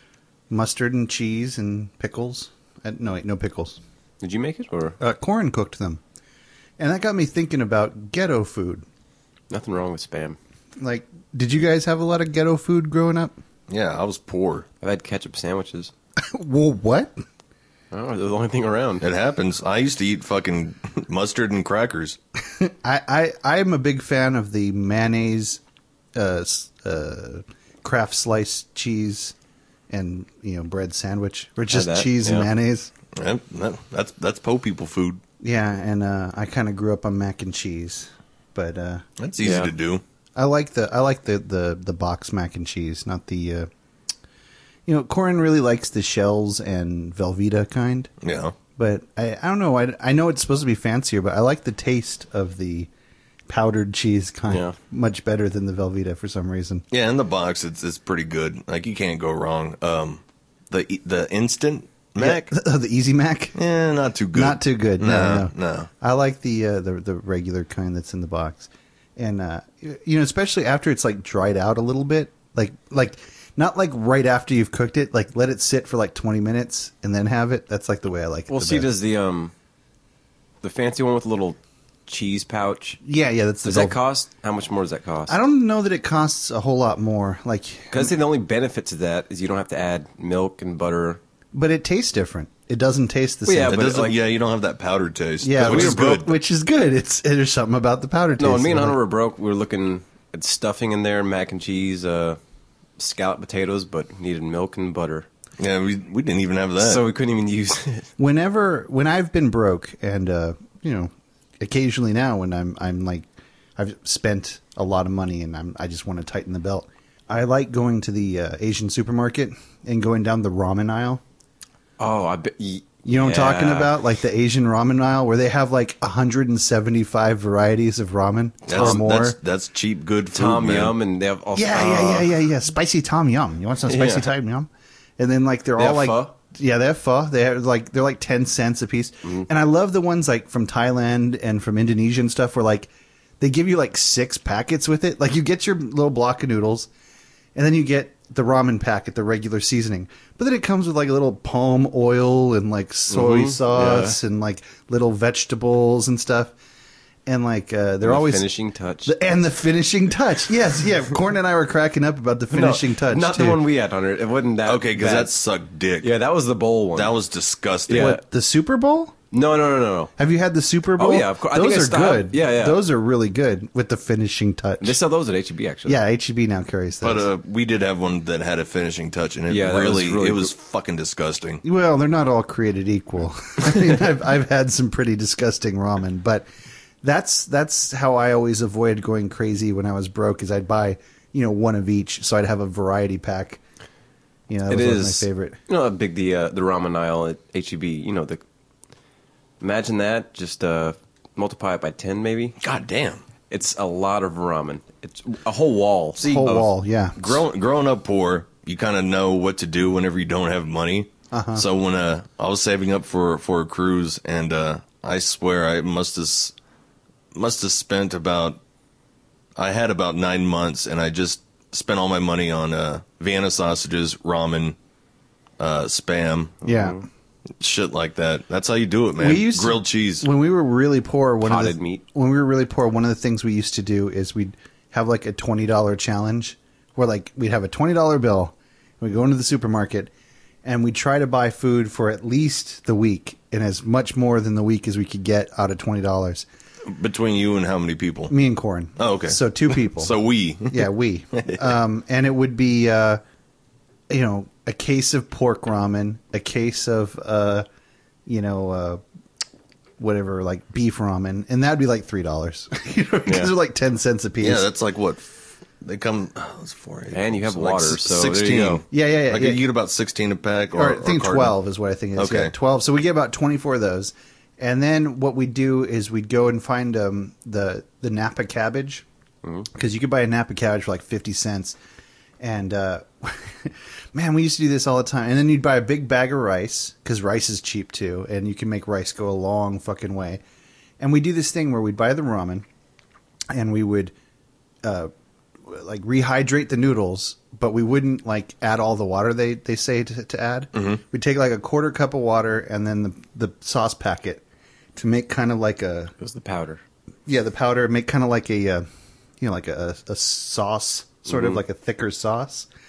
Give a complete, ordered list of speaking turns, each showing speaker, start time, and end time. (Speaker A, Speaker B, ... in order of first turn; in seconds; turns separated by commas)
Speaker A: 0.5-3.8, Speaker B: 4.2-5.0, Speaker A: 5.0-6.0, Speaker A: 6.8-8.8, Speaker B: 9.5-10.4, Speaker A: 10.8-13.3, Speaker C: 13.7-14.7, Speaker B: 14.8-15.9, Speaker A: 16.2-17.1, Speaker B: 17.9-19.1, Speaker C: 19.0-22.2, Speaker A: 22.6-25.6, Speaker A: 26.1-29.3, Speaker A: 29.9-32.9, Speaker B: 31.7-32.5, Speaker C: 33.1-35.2, Speaker A: 35.4-39.0, Speaker C: 39.2-40.0, Speaker B: 39.4-39.7, Speaker A: 40.3-43.7, Speaker A: 44.9-48.1, Speaker C: 48.2-48.5, Speaker A: 48.8-52.9, Speaker A: 53.5-56.8, Speaker B: 54.5-54.7, Speaker C: 56.9-62.5, Speaker A: 62.2-63.5, Speaker C: 63.5-65.9, Speaker A: 64.3-78.9, Speaker B: 78.5-79.5, Speaker B: 80.6-83.0, Speaker A: 83.0-84.0, Speaker B: 83.6-85.4, Speaker A: 85.3-88.1, Speaker B: 87.9-91.2, Speaker A: 91.5-93.8, Speaker B: 93.5-94.2, Speaker C: 93.7-96.3, Speaker A: 95.4-99.0, Speaker B: 95.6-96.0, Speaker B: 98.4-102.4, Speaker B: 103.0-105.3, Speaker C: 105.6-107.0, Speaker B: 106.8-108.1, Speaker A: 108.2-121.2, Speaker B: 122.0-124.0, Speaker A: 123.0-129.3, Speaker C: 128.7-130.9, Speaker B: 130.3-132.3, Speaker A: 131.5-146.9, Speaker B: 133.9-134.3, Speaker B: 135.8-136.3, Speaker A: 147.5-156.5, Speaker B: 153.1-154.2, Speaker A: 157.2-158.5, Speaker B: 158.0-159.1, Speaker A: 159.0-163.6, Speaker B: 162.5-165.3, Speaker C: 164.7-166.1, Speaker B: 166.0-167.1, Speaker C: 166.9-168.1, Speaker B: 167.9-168.2, Speaker A: 167.9-169.1, Speaker B: 169.3-170.1, Speaker A: 170.2-175.0, Speaker B: 171.0-172.8, Speaker B: 174.8-176.0, Speaker A: 175.8-177.3, Speaker C: 177.0-181.6, Speaker B: 179.5-180.5, Speaker A: 181.6-186.4, Speaker A: 187.0-193.6, Speaker A: 194.5-195.6, Speaker B: 194.7-198.4, Speaker B: 199.6-202.6, Speaker C: 202.6-203.2, Speaker B: 203.5-206.6, Speaker A: 206.2-207.4, Speaker C: 207.2-216.5, Speaker A: 211.3-211.6, Speaker C: 217.3-218.6, Speaker C: 219.6-224.8, Speaker C: 225.6-226.6, Speaker A: 226.6-227.0, Speaker B: 226.7-227.0, Speaker C: 227.6-230.3, Speaker A: 229.2-240.1, Speaker B: 231.4-232.0, Speaker A: 240.6-246.4, Speaker C: 246.8-248.3, Speaker A: 248.3-250.1, Speaker C: 249.0-251.7, Speaker A: 250.7-253.2, Speaker A: 254.1-257.6, Speaker A: 258.2-259.0, Speaker A: 260.0-264.7, Speaker B: 263.2-263.5, Speaker C: 264.4-265.3, Speaker C: 265.8-271.5, Speaker B: 267.1-268.8, Speaker A: 268.9-269.6, Speaker A: 270.7-279.0, Speaker C: 272.1-272.5, Speaker A: 279.7-281.8, Speaker A: 282.4-290.4, Speaker A: 291.0-292.6, Speaker A: 293.5-294.1, Speaker A: 294.8-295.1, Speaker A: 295.6-304.4, Speaker C: 300.7-301.0, Speaker A: 304.9-306.1, Speaker B: 306.2-306.8, Speaker A: 307.2-308.8, Speaker A: 309.4-312.7, Speaker B: 311.3-311.6